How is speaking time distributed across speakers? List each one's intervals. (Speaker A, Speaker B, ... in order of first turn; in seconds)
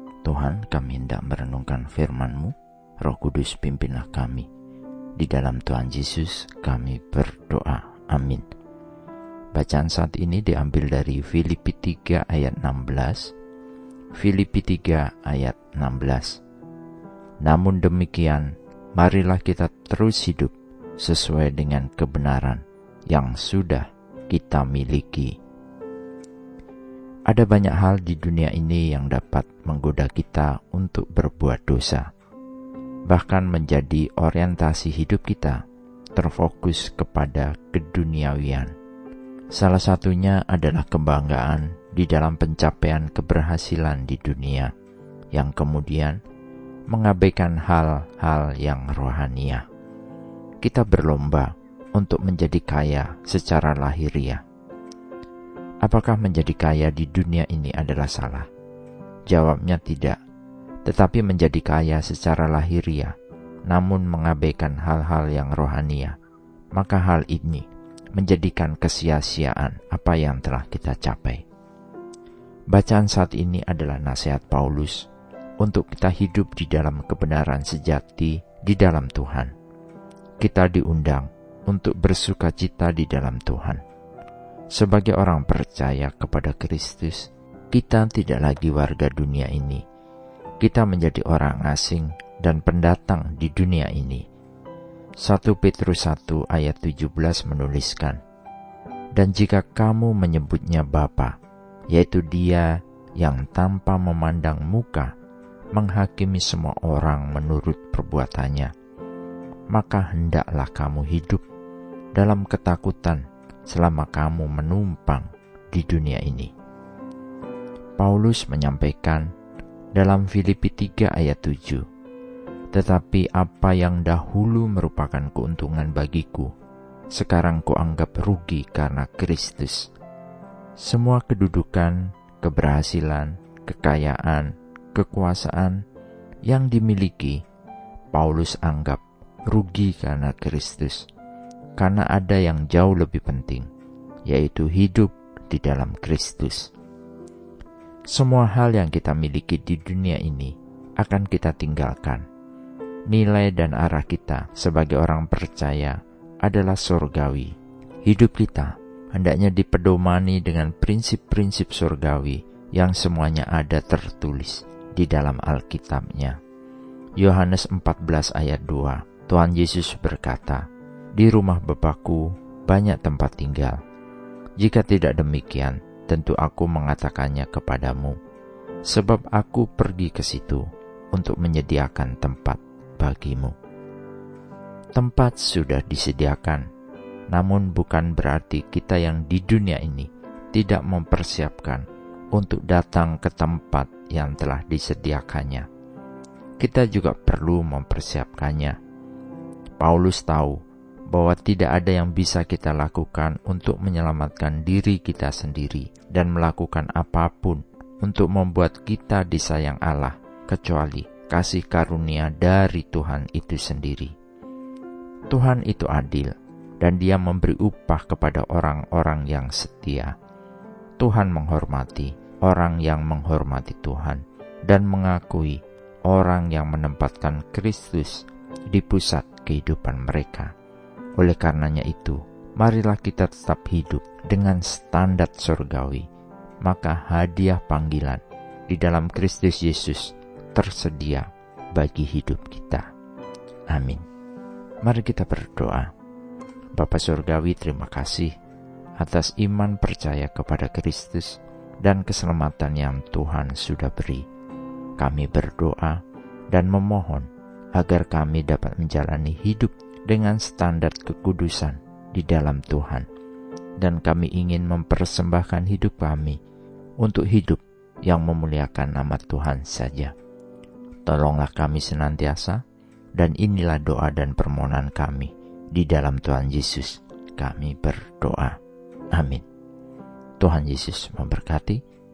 Speaker A: 0.2-4.5, 5.2-8.4, 9.5-13.3, 14.2-16.4, 17.4-25.4, 27.3-32.1, 33.1-35.6, 36.2-38.7, 39.5-44.7, 45.3-46.2, 46.9-49.6, 50.6-54.4, 55.8-58.5, 59.3-60.2, 60.8-63.2, 63.7-66.2, 66.7-71.4, 72.7-75.1, 75.6-79.5, 80.4-83.8, 84.7-89.8, 90.6-94.2, 95.2-98.2, 99.2-101.4, 101.9-105.1, 105.7-108.7, 109.7-111.4, 112.2-116.5, 118.0-119.3, 120.0-121.8, 122.7-126.5, 127.1-129.9, 130.8-135.8, 136.5-137.4, 138.1-141.1, 141.8-143.7, 144.3-146.7, 148.1-152.2, 153.1-166.4, 167.2-173.8, 174.6-178.2, 178.9-183.6, 184.9-186.7, 187.3-195.7, 196.6-198.8, 199.8-214.1, 215.3-220.2, 221.0-230.5, 231.2-236.1, 236.6-242.9, 243.7-244.1, 244.8-245.9, 246.8-248.4, 249.0-254.3, 255.0-263.1, 263.8-266.4, 267.0-270.1, 271.1-272.6, 273.1-278.6, 279.1-279.4, 280.4-281.8